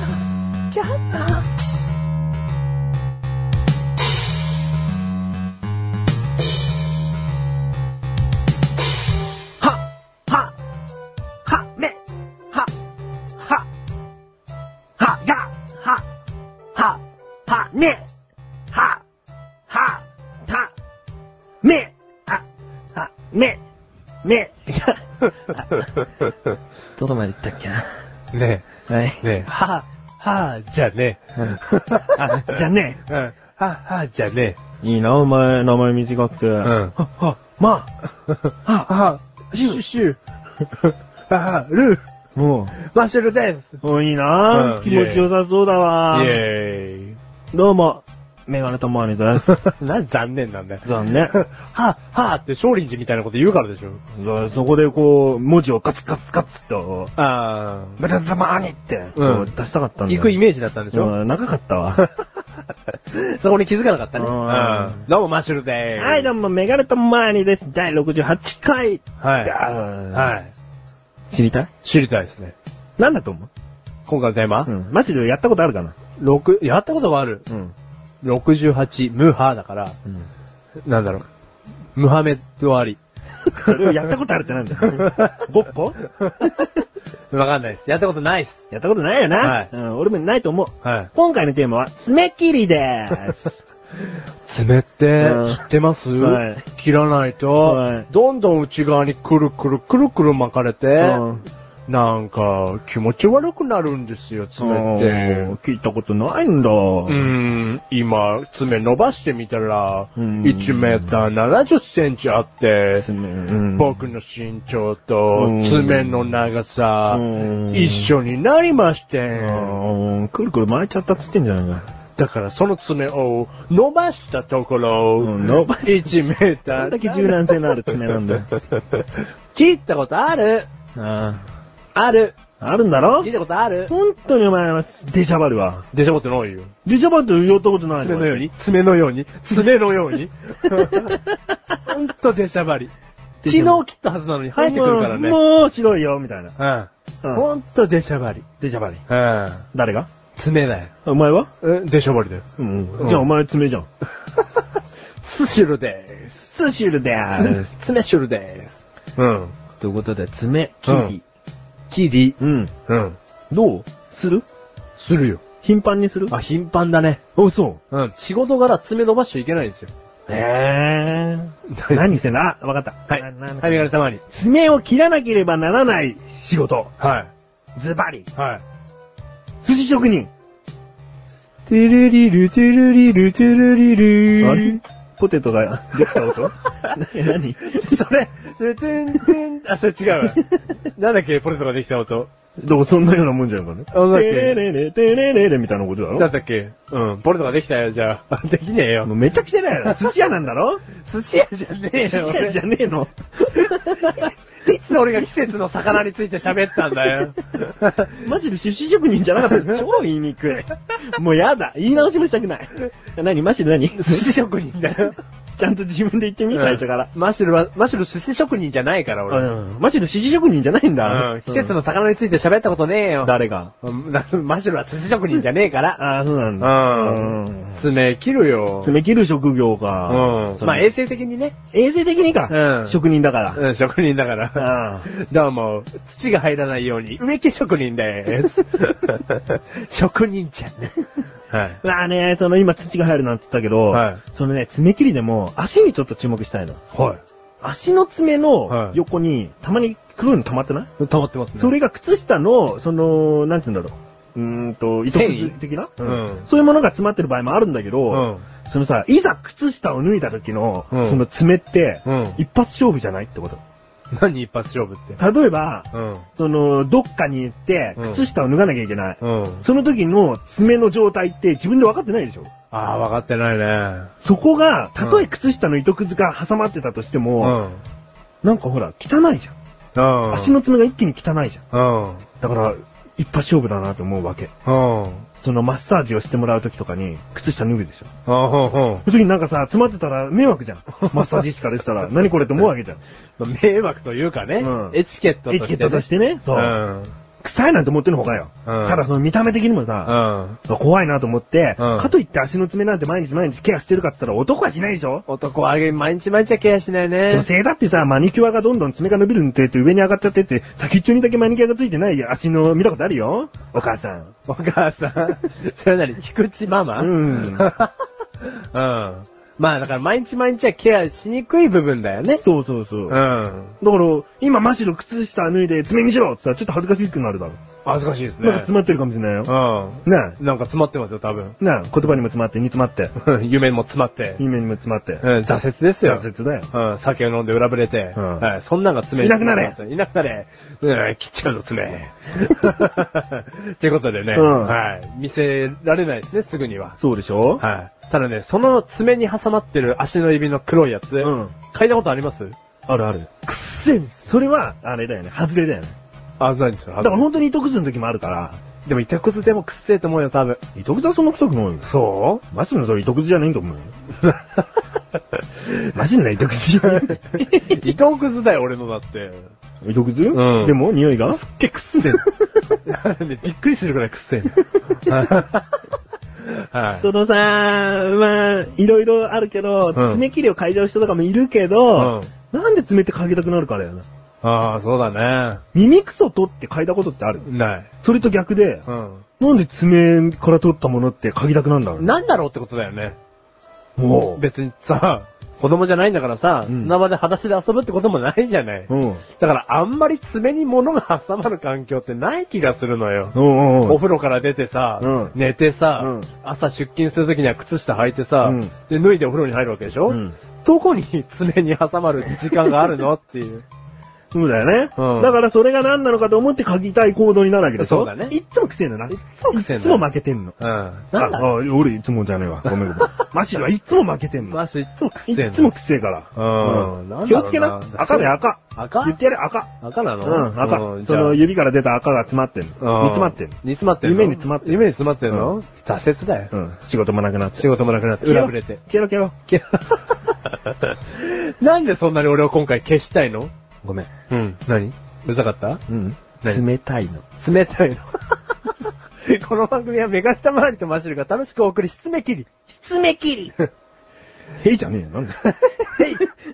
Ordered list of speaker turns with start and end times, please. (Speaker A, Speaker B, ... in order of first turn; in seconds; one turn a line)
Speaker A: 0.7-1.4
Speaker B: 9.6-10.5
Speaker B: 11.4-12.0
Speaker B: 13.4-13.7
Speaker B: 15.0-16.0
Speaker B: 16.7-18.1
Speaker B: 18.7-19.0
Speaker B: 19.7-20.7
Speaker B: 21.6-23.6
Speaker B: 24.2-25.8
Speaker B: 27.0-27.9
Speaker A: 28.3-28.7
Speaker B: 28.9-29.3
Speaker A: 29.2-32.5
Speaker B: 31.4-33.0
Speaker A: 33.1-34.6
Speaker B: 34.8-37.9
Speaker A: 36.6-36.9
Speaker A: 38.5-42.0
Speaker B: 38.6-38.9
Speaker B: 39.5-39.8
Speaker B: 42.4-42.7
Speaker A: 42.8-43.8
Speaker B: 43.8-46.4
Speaker A: 44.5-45.3
Speaker A: 46.1-47.2
Speaker B: 47.5-49.6
Speaker A: 49.5-54.0
Speaker B: 50.8-51.3
Speaker B: 54.1-57.1
Speaker A: 57.2-58.0
Speaker B: 58.0-60.4
Speaker A: 59.1-59.5
Speaker A: 60.1-61.1
Speaker B: 60.9-62.0
Speaker A: 62.9-66.3
Speaker B: 64.2-65.1
Speaker B: 66.0-70.3
Speaker A: 69.2-69.5
Speaker A: 70.1-70.5
Speaker B: 71.3-71.7
Speaker A: 71.8-72.5
Speaker B: 73.0-73.5
Speaker A: 74.0-74.7
Speaker B: 74.7-75.9
Speaker A: 76.2-77.4
Speaker B: 77.5-77.7
Speaker A: 78.2-80.0
Speaker A: 80.8-81.3
Speaker A: 82.0-83.0
Speaker B: 83.5-86.5
Speaker A: 85.0-85.3
Speaker A: 86.2-86.5
Speaker A: 87.3-88.6
Speaker B: 88.7-93.6
Speaker A: 89.4-89.7
Speaker A: 90.8-91.1
Speaker A: 94.5-101.2
Speaker B: 95.2-95.6
Speaker B: 96.2-96.6
Speaker B: 97.6-98.1
Speaker B: 101.0-101.4
Speaker A: 101.9-105.5
Speaker B: 104.6-107.3
Speaker A: 107.0-113.0
Speaker B: 110.2-111.1
Speaker B: 113.0-114.0
Speaker A: 113.8-119.8
Speaker B: 115.3-116.2
Speaker B: 117.1-118.1
Speaker B: 119.4-121.8
Speaker A: 122.2-127.5
Speaker B: 125.2-126.2
Speaker B: 126.7-128.5
Speaker A: 128.8-130.7
Speaker B: 130.9-131.4
Speaker A: 131.9-132.3
Speaker B: 132.6-133.3
Speaker A: 133.2-133.9
Speaker B: 133.9-135.8
Speaker A: 135.9-136.7
Speaker B: 136.8-138.5
Speaker A: 138.0-141.2
Speaker B: 140.7-141.3
Speaker A: 141.8-142.9
Speaker B: 143.4-143.8
Speaker A: 143.4-145.4
Speaker B: 144.6-146.6
Speaker A: 146.6-148.4
Speaker B: 148.6-149.0
Speaker A: 149.1-149.7
Speaker B: 149.7-150.1
Speaker A: 150.3-150.9
Speaker B: 151.0-151.5
Speaker A: 151.6-152.4
Speaker B: 152.6-153.9
Speaker A: 153.0-153.2
Speaker A: 155.2-156.4
Speaker B: 156.4-157.7
Speaker A: 157.3-159.5
Speaker B: 159.8-161.2
Speaker A: 160.9-161.1
Speaker A: 161.9-162.4
Speaker B: 162.4-162.7
Speaker A: 162.9-163.2
Speaker B: 163.5-164.4
Speaker A: 165.0-165.4
Speaker B: 165.6-166.3
Speaker A: 166.3-167.2
Speaker B: 167.3-167.8
Speaker A: 167.9-169.9
Speaker B: 170.3-176.9
Speaker A: 171.7-172.1
Speaker A: 173.1-174.2
Speaker A: 177.0-177.3
Speaker B: 177.8-178.3
Speaker A: 178.3-178.6
Speaker B: 179.6-180.3
Speaker A: 181.7-184.8
Speaker B: 184.4-187.8
Speaker A: 186.0-186.9
Speaker A: 187.7-192.3
Speaker B: 192.6-196.3
Speaker A: 193.9-194.6
Speaker A: 196.2-199.1
Speaker B: 199.0-200.8
Speaker A: 199.8-200.1
Speaker A: 201.0-202.6
Speaker B: 201.9-204.3
Speaker A: 204.0-208.2
Speaker B: 208.2-214.3
Speaker A: 213.9-215.2
Speaker B: 215.6-217.1
Speaker A: 216.5-219.5
Speaker B: 219.3-221.7
Speaker A: 221.0-226.0
Speaker B: 223.2-223.7
Speaker B: 226.0-227.8
Speaker A: 226.6-228.9
Speaker B: 228.8-230.9
Speaker A: 230.1-231.6
Speaker B: 231.7-233.6
Speaker A: 232.5-233.0
Speaker A: 233.5-241.8
Speaker B: 234.5-235.1
Speaker B: 241.8-246.8
Speaker A: 243.9-244.2
Speaker A: 246.9-247.2
Speaker B: 247.6-250.9
Speaker A: 248.7-249.0
Speaker A: 251.0-251.7
Speaker B: 251.6-263.6
Speaker A: 255.1-256.5
Speaker A: 258.1-258.4
Speaker A: 260.9-261.2
Speaker A: 262.0-262.4
Speaker A: 264.1-265.2
Speaker B: 265.2-272.5
Speaker A: 265.9-266.2
Speaker A: 268.0-268.2
Speaker A: 269.2-269.6
Speaker A: 272.7-274.1
Speaker B: 274.2-277.6
Speaker A: 275.0-275.2
Speaker A: 277.4-277.8
Speaker B: 278.4-279.5
Speaker A: 279.9-280.6
Speaker B: 280.3-281.6
Speaker A: 281.7-282.2
Speaker B: 282.4-284.5
Speaker A: 284.6-285.3
Speaker B: 285.4-288.1
Speaker A: 288.2-289.1
Speaker B: 289.0-293.0
Speaker A: 293.4-297.1
Speaker B: 294.6-296.8
Speaker B: 297.4-305.2
Speaker A: 298.6-299.0
Speaker A: 300.1-300.6
Speaker A: 301.8-302.1
Speaker A: 305.3-307.5
Speaker B: 307.3-314.3
Speaker A: 314.5-322.4
Speaker B: 317.0-317.7
Speaker B: 322.4-323.2
Speaker A: 323.1-323.8
Speaker B: 323.8-327.6
Speaker A: 327.8-328.7
Speaker B: 328.4-329.5
Speaker A: 329.4-331.6
Speaker B: 330.0-330.4
Speaker B: 331.6-333.1
Speaker A: 333.1-334.4
Speaker B: 334.4-335.2
Speaker A: 335.2-347.0
Speaker B: 336.0-336.7
Speaker B: 338.1-338.5
Speaker B: 339.2-339.8
Speaker B: 344.3-344.8
Speaker B: 347.0-347.6
Speaker A: 347.6-352.6
Speaker B: 351.2-351.5
Speaker B: 352.9-353.3
Speaker A: 353.4-354.3
Speaker B: 354.2-355.9
Speaker A: 356.4-357.3
Speaker B: 357.0-358.6
Speaker A: 358.8-360.6
Speaker B: 360.7-361.9
Speaker A: 361.8-362.4
Speaker B: 362.5-363.9
Speaker A: 364.2-364.6
Speaker B: 365.9-367.8
Speaker A: 366.9-369.5
Speaker B: 369.8-371.4
Speaker A: 370.3-370.8
Speaker A: 371.3-372.2
Speaker B: 372.0-372.6
Speaker A: 372.9-375.7
Speaker A: 376.4-377.1
Speaker B: 376.9-384.0
Speaker A: 379.9-380.2
Speaker A: 381.9-382.3
Speaker A: 384.4-385.6
Speaker B: 385.7-387.5
Speaker A: 387.4-387.9
Speaker B: 388.0-388.8
Speaker A: 388.9-389.2
Speaker B: 389.4-392.1
Speaker A: 392.0-393.2
Speaker B: 394.0-394.4
Speaker A: 394.4-413.6
Speaker B: 396.7-396.9
Speaker B: 398.9-399.2
Speaker B: 403.3-404.0
Speaker B: 405.0-405.4
Speaker B: 406.0-406.3
Speaker B: 408.4-408.7
Speaker B: 410.1-410.3
Speaker B: 414.3-420.5
Speaker A: 414.9-415.4
Speaker A: 417.8-418.3
Speaker A: 419.1-420.1
Speaker A: 420.6-421.4
Speaker B: 421.1-424.6
Speaker A: 422.6-423.3
Speaker A: 424.4-425.7
Speaker B: 425.3-429.7
Speaker A: 426.3-429.2
Speaker A: 429.8-431.4
Speaker B: 430.2-435.5
Speaker A: 432.8-436.5
Speaker B: 436.5-437.6
Speaker A: 437.6-438.8
Speaker B: 438.2-439.3
Speaker A: 439.5-443.5
Speaker B: 443.8-444.1
Speaker A: 444.3-445.8
Speaker B: 445.9-447.2
Speaker A: 447.4-452.5
Speaker B: 452.7-453.5
Speaker B: 454.6-456.2
Speaker A: 455.4-456.3